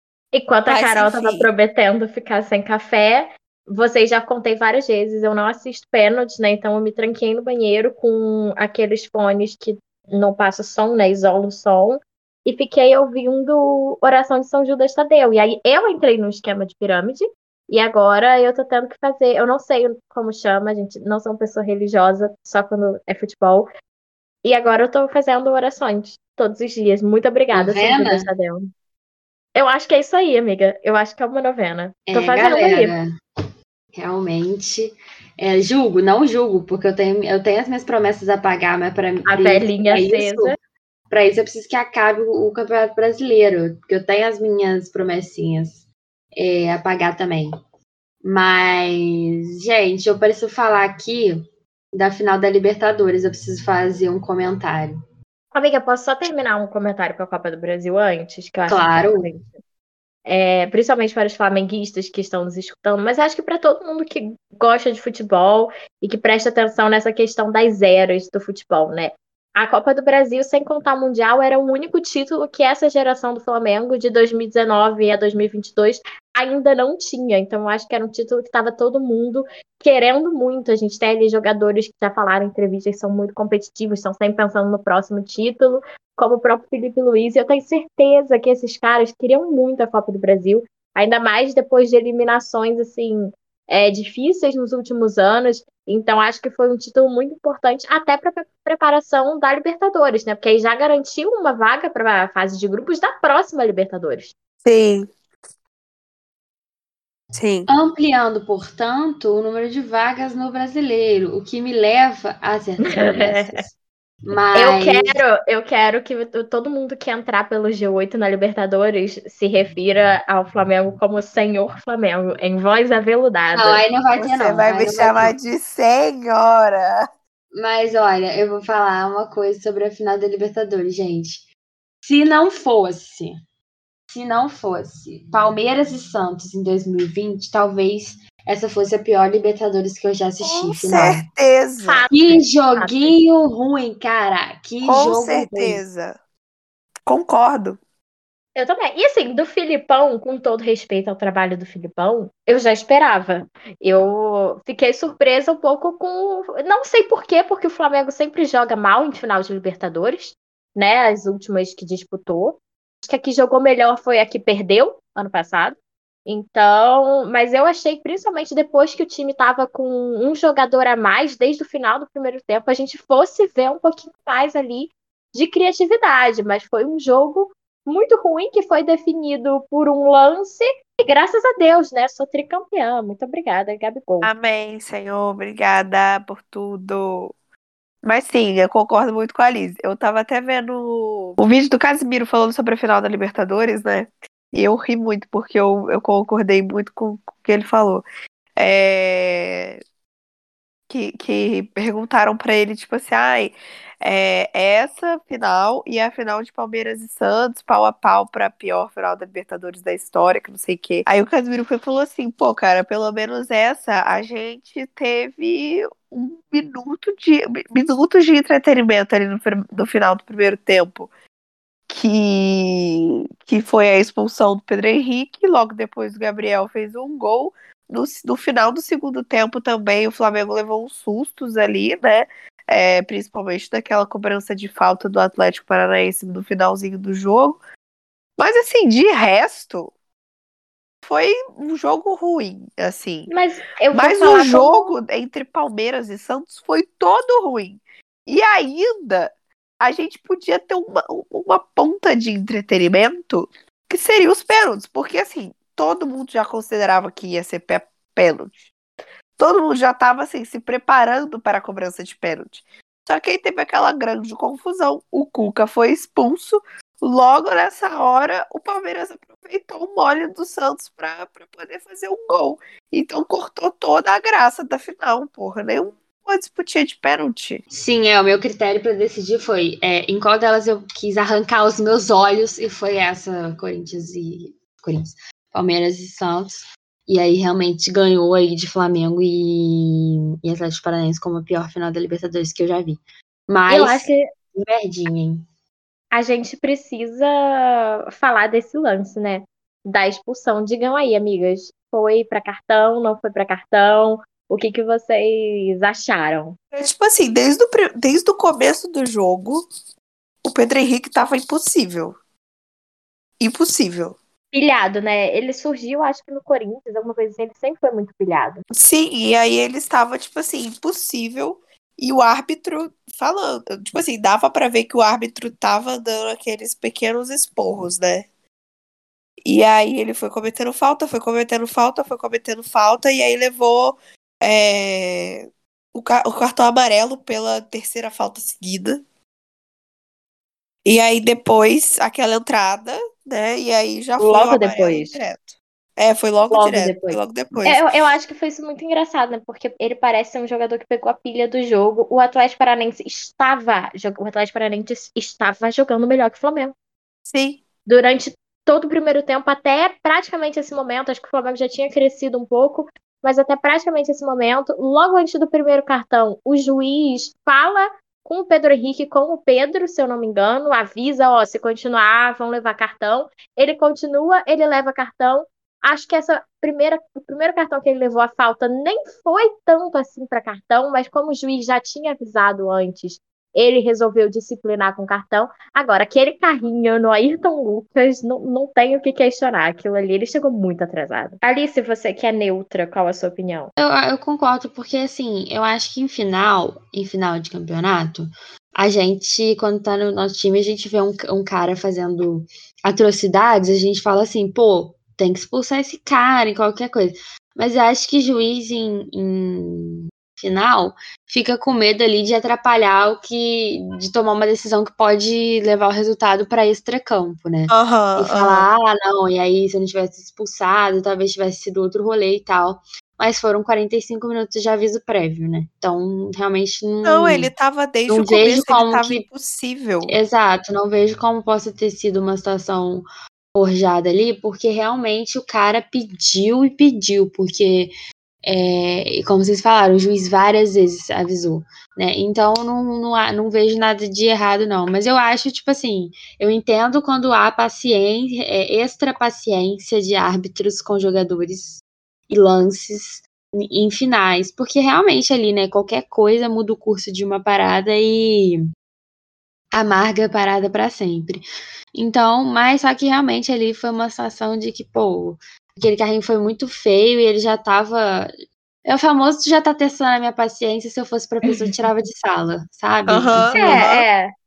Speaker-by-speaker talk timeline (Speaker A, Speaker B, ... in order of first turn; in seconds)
Speaker A: 0.3-23.7, 24.4-28.7, 29.5-32.9, 39.3-40.5, 55.5-59.5, 60.2-104.3, 112.8-113.6, 114.5-123.8, 141.8-143.2, 148.6-184.3, 243.3-244.9, 293.7-294.3, 296.1-306.6, 314.5-318.6, 344.2-345.1, 346.5-356.7, 357.9-393.7, 473.5-474.3
Speaker B: 0.7-1.5, 104.6-105.1, 107.3-107.7, 124.2-127.0, 140.4-142.1, 144.8-146.2, 147.1-147.8, 184.2-187.3, 188.0-198.0, 198.6-199.8, 200.9-221.1, 221.9-237.6, 238.4-239.9, 241.0-243.3, 243.9-258.7, 259.4-277.6, 306.7-309.6, 310.4-312.2, 313.4-314.2, 318.7-328.3, 329.4-339.0, 340.8-348.1, 357.3-357.6, 417.7-418.7, 427.0-430.1, 473.1-474.1
Speaker C: 27.5-28.3, 32.1-33.1, 33.9-40.5, 41.1-47.5, 48.2-55.0, 58.7-59.3, 107.7-113.7, 114.2-115.2, 123.5-125.3, 127.5-131.5, 132.0-133.4, 134.1-141.2, 142.1-145.8, 277.7-295.4, 393.8-427.5, 428.1-429.2, 430.1-437.9, 438.4-458.6, 459.7-473.9